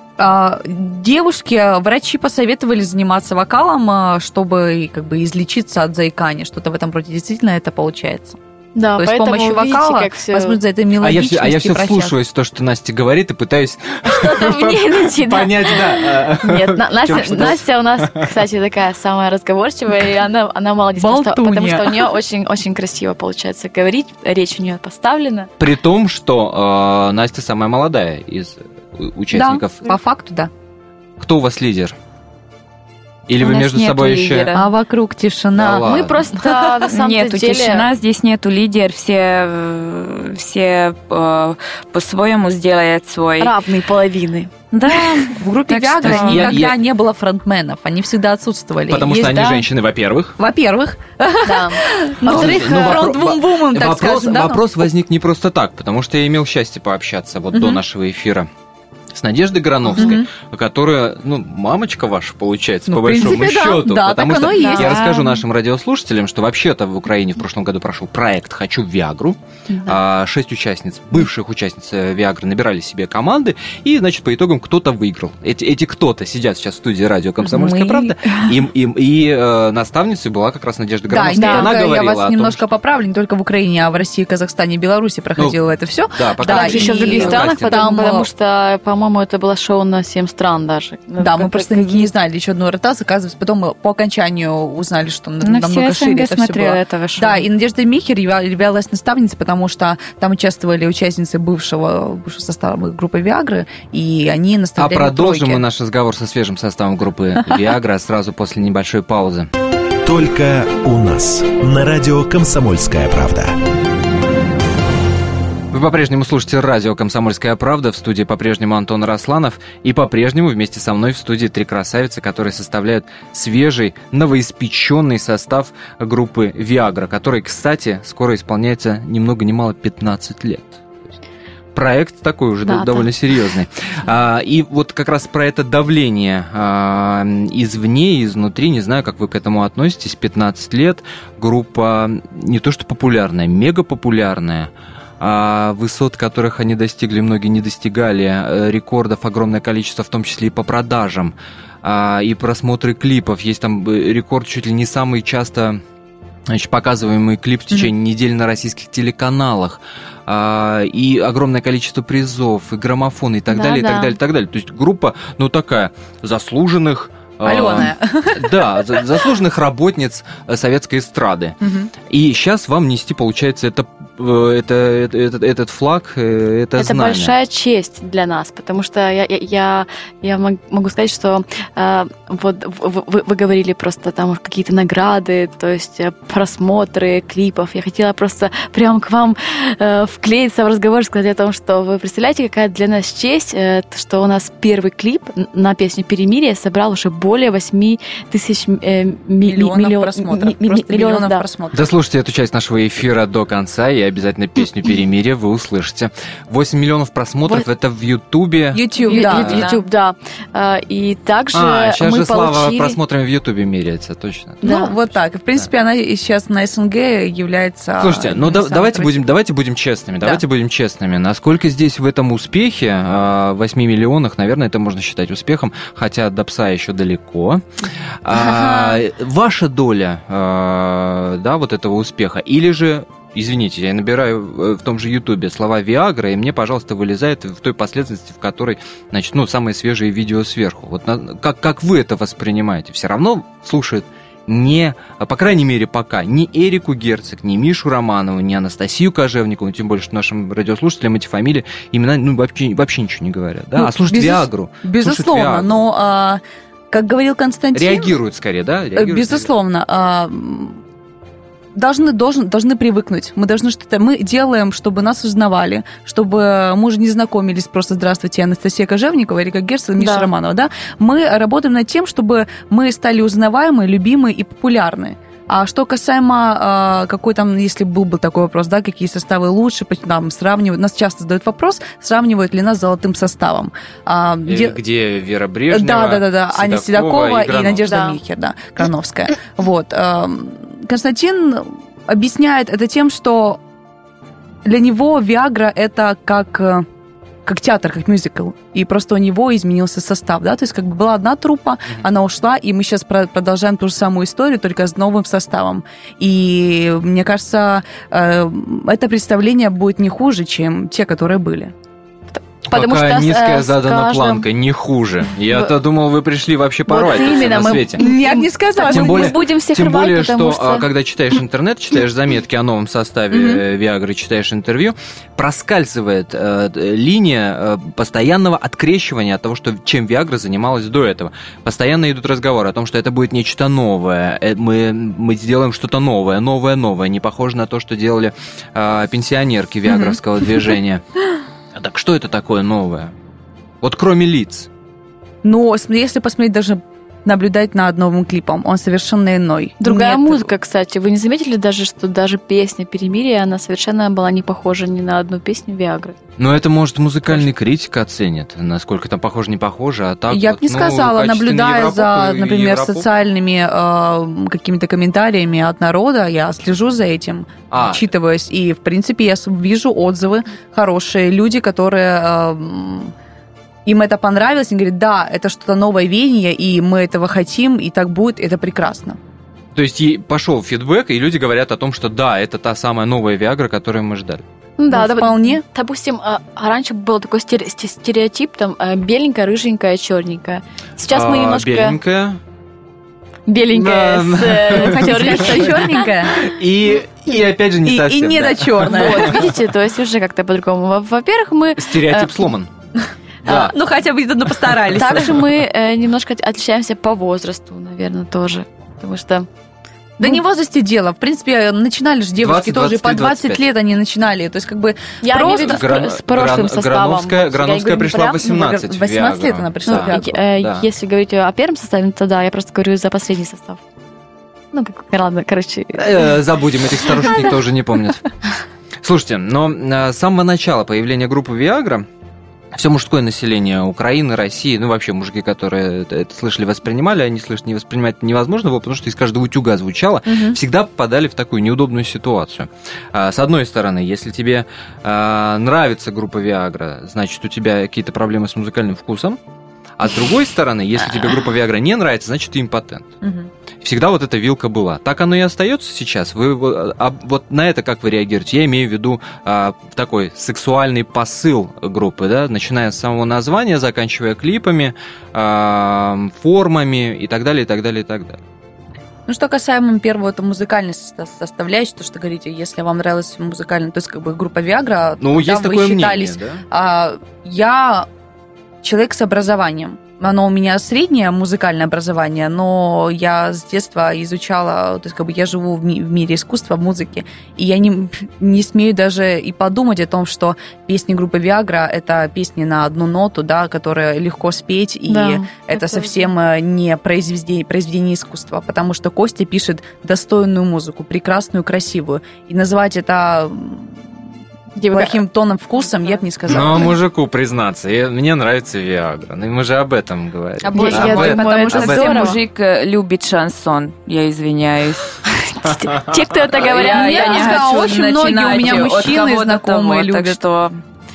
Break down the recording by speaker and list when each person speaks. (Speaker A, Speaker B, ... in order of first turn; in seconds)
Speaker A: 0.2-8.4, 9.0-12.1, 21.0-22.1, 29.3-30.5, 34.5-36.8, 45.3-49.7, 50.4-54.9, 57.5-57.8, 59.9-60.3, 62.9-65.3, 69.7-70.0, 81.1-88.3, 91.2-105.6, 167.4-169.2, 171.6-171.9, 199.4-201.9, 208.7-209.8, 214.6-219.2, 253.8-258.1, 258.9-260.8, 261.7-284.8, 285.7-293.6, 294.6-296.9, 297.4-311.7, 318.0-319.4, 323.3-323.6, 339.8-340.2, 345.4-350.5, 360.3-373.1, 373.9-379.2, 384.9-385.6, 394.7-396.4, 397.8-399.5, 403.4-405.4, 410.2-415.9, 418.4-420.4, 440.3-440.6, 453.2-453.5, 469.3-478.1, 478.8-504.1, 504.9-506.9, 510.6-512.3, 516.6-520.4
Speaker B: 8.7-10.6, 14.0-25.5, 35.7-37.9, 43.4-44.5, 51.4-53.0, 81.3-81.7, 86.4-92.1, 132.6-133.1, 163.5-164.2, 176.8-201.4, 209.0-213.0, 214.6-214.9, 270.0-270.3, 287.9-288.2, 312.3-314.5, 316.9-320.9, 349.8-356.1, 384.8-392.0, 393.5-396.1, 398.9-402.3, 404.9-409.5, 415.2-418.4, 419.8-423.8, 424.7-426.3, 427.2-427.6, 495.1-496.2, 504.8-505.2, 510.7-512.4, 515.3-519.1
Speaker C: 11.0-18.3, 25.6-29.9, 31.2-31.9, 33.3-34.5, 35.5-36.3, 46.0-46.8, 48.9-50.4, 52.2-58.5, 59.1-82.6, 86.1-87.8, 104.8-109.5, 115.7-130.8, 131.7-155.8, 156.5-171.6, 172.1-177.3, 201.7-209.7, 211.5-214.9, 218.0-227.6, 228.2-255.8, 257.7-259.5, 284.4-288.1, 312.7-318.0, 318.8-341.0, 341.7-343.1, 343.8-344.7, 356.4-363.1, 367.7-368.1, 379.7-384.4, 391.1-392.4, 393.7-399.6, 401.8-402.7, 403.4-403.7, 404.7-405.4, 412.4-413.6, 415.4-420.9, 426.0-428.3, 429.0-432.1, 432.7-449.4, 450.0-453.1, 453.8-468.4, 475.2-476.6, 506.5-512.3, 515.7-516.2
Speaker D: 33.4-34.7, 36.9-43.5, 44.7-46.6, 64.8-65.2, 77.5-78.5, 95.4-97.4, 511.5-515.1, 516.6-520.8
Speaker E: 110.0-113.6